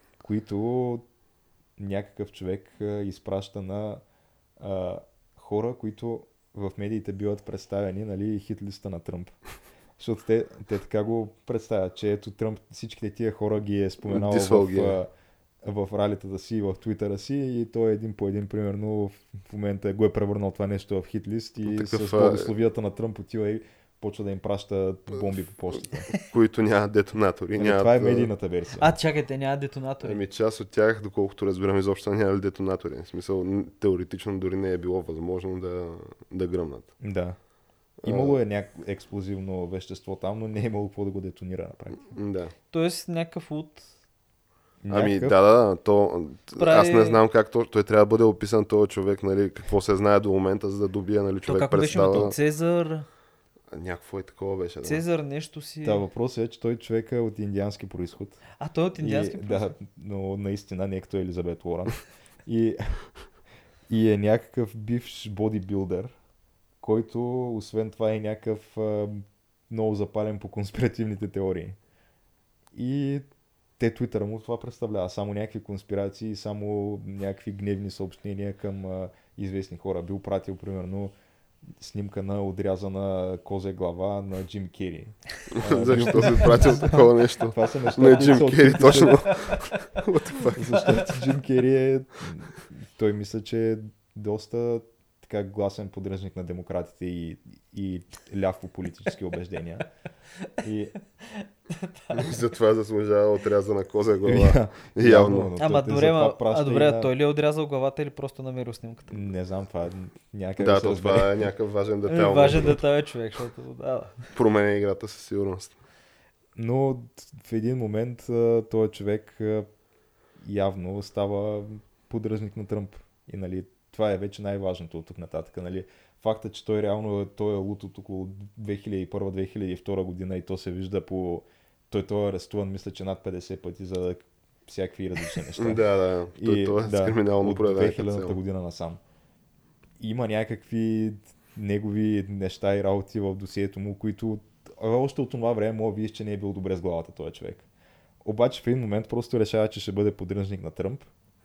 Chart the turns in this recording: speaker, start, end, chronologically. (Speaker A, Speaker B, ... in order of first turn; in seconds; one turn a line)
Speaker A: 0.2-1.0
Speaker A: 1.8-4.0
Speaker A: 4.6-9.4
Speaker A: 10.0-15.1
Speaker B: 14.1-15.0
Speaker A: 15.6-26.1
Speaker B: 21.6-22.5
Speaker B: 26.1-28.3
Speaker A: 27.6-28.9
Speaker C: 28.8-30.2
Speaker B: 30.0-36.9
Speaker A: 37.0-37.4
Speaker B: 38.0-38.4
Speaker A: 38.0-42.1
Speaker B: 42.1-42.5
Speaker C: 42.7-43.9
Speaker A: 44.8-45.4
Speaker B: 44.9-52.4
Speaker C: 46.6-47.2
Speaker C: 51.5-53.1
Speaker B: 53.7-55.0
Speaker C: 54.8-56.0
Speaker A: 55.8-58.4
Speaker C: 58.6-59.7
Speaker A: 59.0-63.0
Speaker A: 63.9-66.1
Speaker A: 66.8-71.8
Speaker A: 72.7-73.2
Speaker A: 73.8-81.1
Speaker A: 81.8-89.5
Speaker B: 85.5-91.0
Speaker C: 86.3-87.0
Speaker C: 88.0-89.6
Speaker A: 90.5-99.9
Speaker A: 100.6-100.9
Speaker C: 101.2-102.4
Speaker B: 102.1-105.5
Speaker A: 104.2-107.1
Speaker C: 105.6-109.3
Speaker A: 109.1-111.5
Speaker B: 110.6-112.8
Speaker C: 112.1-114.2
Speaker B: 114.3-115.8
Speaker A: 116.6-119.7
Speaker A: 120.4-135.8
Speaker B: 135.6-138.4
Speaker A: 136.4-139.0
Speaker A: 140.0-147.7
Speaker A: 148.2-151.1